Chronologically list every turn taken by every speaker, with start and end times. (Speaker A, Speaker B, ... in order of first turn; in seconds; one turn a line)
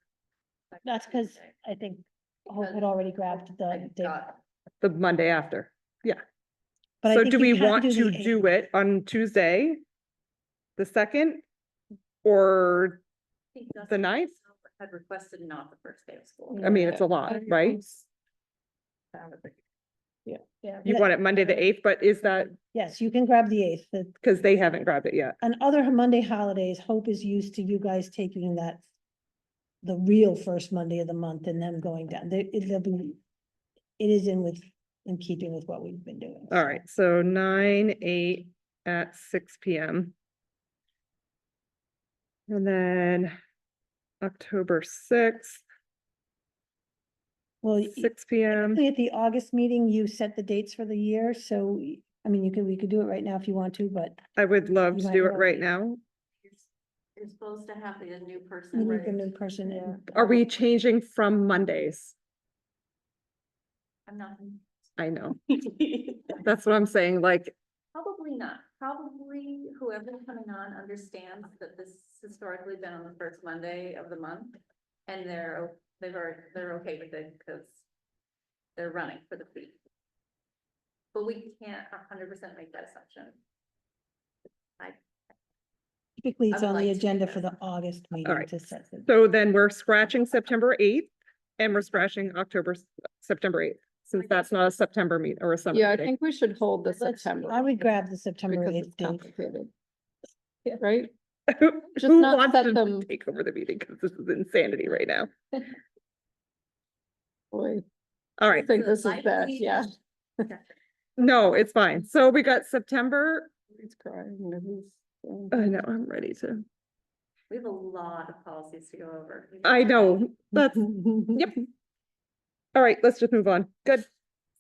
Speaker A: 0.7-1.5
Speaker B: 0.8-4.2
Speaker A: 2.5-4.4
Speaker C: 4.8-6.2
Speaker B: 7.0-8.5
Speaker C: 7.1-9.8
Speaker C: 10.8-11.4
Speaker C: 12.2-13.0
Speaker A: 13.5-17.0
Speaker C: 13.8-14.3
Speaker B: 16.5-17.0
Speaker C: 16.6-18.0
Speaker B: 20.6-21.1
Speaker C: 20.9-22.6
Speaker B: 22.7-24.1
Speaker C: 24.2-25.4
Speaker B: 25.4-28.8
Speaker B: 29.8-33.2
Speaker B: 34.0-36.8
Speaker C: 36.5-40.1
Speaker C: 42.5-43.3
Speaker C: 44.2-45.6
Speaker B: 47.6-54.2
Speaker C: 47.9-48.8
Speaker C: 54.4-56.0
Speaker B: 54.9-55.6
Speaker A: 57.2-59.3
Speaker B: 58.7-60.1
Speaker C: 60.1-62.2
Speaker A: 64.1-64.7
Speaker C: 65.0-65.4
Speaker A: 65.5-66.4
Speaker C: 66.4-67.5
Speaker A: 67.9-77.8
Speaker A: 78.8-79.8
Speaker A: 81.1-83.4
Speaker B: 86.2-89.1
Speaker A: 86.5-87.5
Speaker C: 89.1-96.1
Speaker D: 95.7-97.7
Speaker B: 96.9-99.3
Speaker D: 98.5-99.7
Speaker D: 100.8-101.1
Speaker C: 101.5-105.3
Speaker D: 102.0-103.1
Speaker D: 107.5-107.8
Speaker C: 108.4-108.7
Speaker A: 108.5-110.0
Speaker D: 108.6-109.9
Speaker C: 111.2-113.5
Speaker D: 113.7-115.7
Speaker C: 115.5-116.7
Speaker A: 117.5-120.2
Speaker C: 119.6-121.6
Speaker C: 122.8-124.1